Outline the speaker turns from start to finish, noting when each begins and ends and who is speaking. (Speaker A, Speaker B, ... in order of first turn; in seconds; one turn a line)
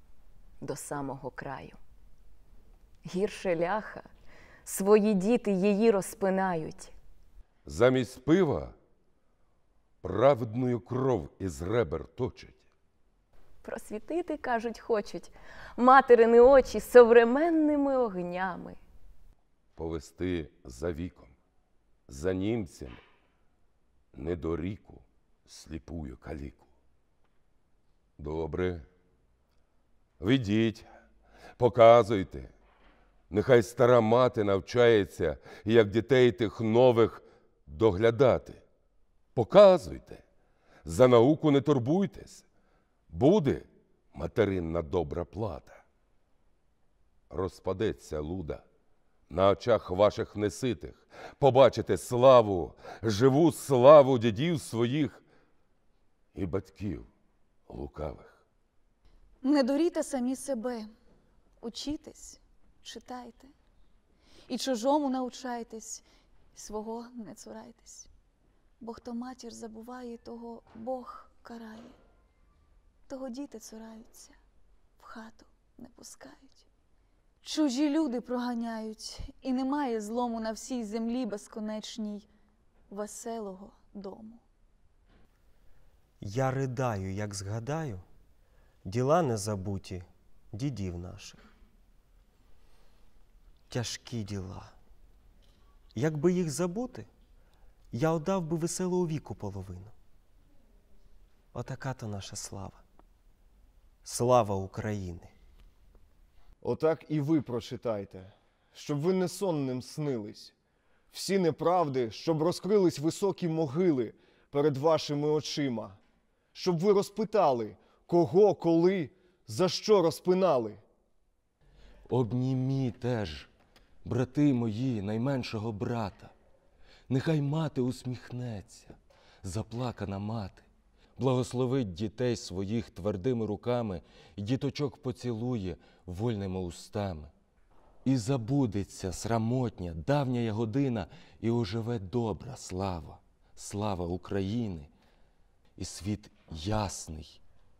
Speaker A: 0.6-1.8
Speaker A: 3.0-4.1
Speaker A: 4.6-6.9
Speaker B: 7.6-8.7
Speaker B: 10.0-12.6
Speaker A: 13.6-18.8
Speaker B: 19.8-21.3
Speaker B: 22.1-23.0
Speaker B: 24.1-26.6
Speaker B: 28.2-28.8
Speaker B: 30.2-30.9
Speaker B: 31.6-32.5
Speaker B: 33.3-38.6
Speaker B: 39.3-40.2
Speaker B: 40.8-42.4
Speaker B: 43.1-45.8
Speaker B: 47.3-48.6
Speaker B: 49.3-55.2
Speaker B: 56.3-57.1
Speaker B: 57.7-58.4
Speaker C: 59.4-60.9
Speaker C: 61.6-63.5
Speaker C: 64.5-66.0
Speaker C: 66.5-68.1
Speaker C: 68.8-72.0
Speaker C: 73.1-74.3
Speaker C: 75.0-76.7
Speaker C: 77.4-82.3
Speaker C: 82.9-84.4
Speaker D: 86.2-88.0
Speaker D: 88.8-91.4
Speaker D: 93.7-94.7
Speaker D: 95.9-97.1
Speaker D: 97.9-99.9
Speaker D: 101.5-102.8
Speaker D: 104.0-105.3
Speaker E: 106.6-110.5
Speaker E: 111.1-116.0
Speaker E: 116.5-120.8
Speaker F: 122.1-123.5
Speaker F: 124.0-126.3
Speaker F: 127.1-137.3
Speaker F: 138.0-144.9
Speaker F: 145.8-147.4